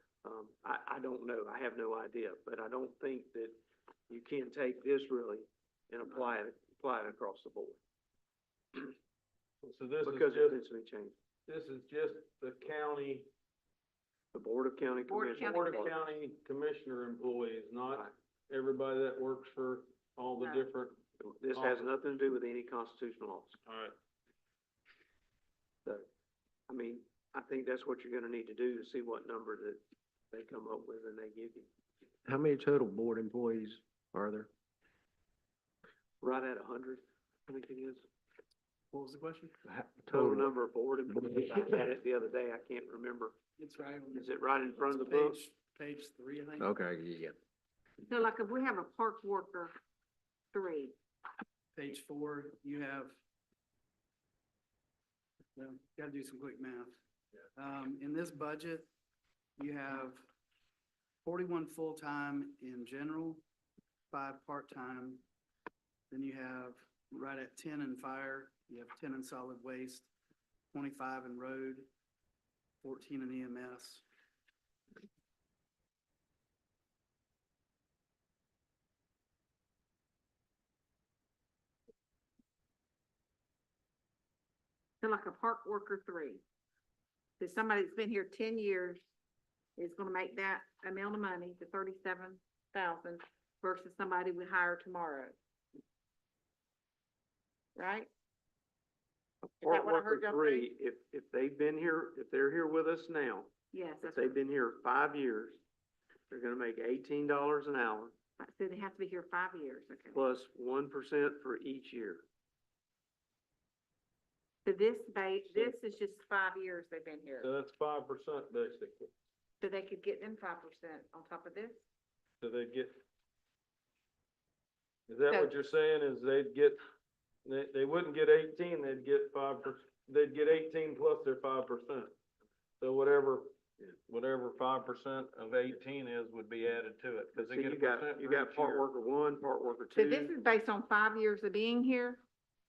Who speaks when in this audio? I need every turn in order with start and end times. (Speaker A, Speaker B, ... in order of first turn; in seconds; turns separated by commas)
Speaker A: 0.2-3.5, Speaker A: 4.1-7.8, Speaker B: 9.6-10.6, Speaker A: 10.0-11.1, Speaker B: 11.5-13.3, Speaker A: 14.3-15.9, Speaker C: 15.1-15.9, Speaker B: 15.3-21.0, Speaker C: 20.4-20.7, Speaker A: 21.2-23.6, Speaker B: 21.5-21.9, Speaker B: 23.6-23.9, Speaker A: 26.7-31.7, Speaker D: 32.2-34.5, Speaker A: 36.2-38.0, Speaker E: 38.9-39.6, Speaker D: 39.6-40.5, Speaker A: 40.1-43.4, Speaker E: 43.6-44.3, Speaker A: 44.1-45.4, Speaker E: 44.9-46.7, Speaker D: 46.6-47.3, Speaker C: 48.1-49.7, Speaker C: 50.5-50.9, Speaker E: 51.7-53.1, Speaker E: 55.5-57.0, Speaker E: 57.5-58.9, Speaker E: 59.6-60.2, Speaker E: 61.2-63.4, Speaker E: 64.1-65.2, Speaker E: 66.1-70.1, Speaker E: 70.7-71.9, Speaker E: 72.8-74.0, Speaker C: 85.0-86.4, Speaker C: 87.4-89.0, Speaker C: 89.8-95.3, Speaker C: 97.8-98.1, Speaker A: 99.6-103.5, Speaker C: 99.6-100.7, Speaker C: 103.7-104.4, Speaker A: 104.0-105.6, Speaker A: 106.3-108.1, Speaker C: 108.4-110.2, Speaker A: 110.1-112.2, Speaker C: 114.7-117.5, Speaker B: 117.4-119.1, Speaker C: 119.6-121.8, Speaker B: 122.4-122.9, Speaker B: 125.1-126.8, Speaker C: 125.3-125.5, Speaker B: 127.4-132.1, Speaker B: 132.8-138.9, Speaker A: 137.3-140.3, Speaker C: 139.9-142.2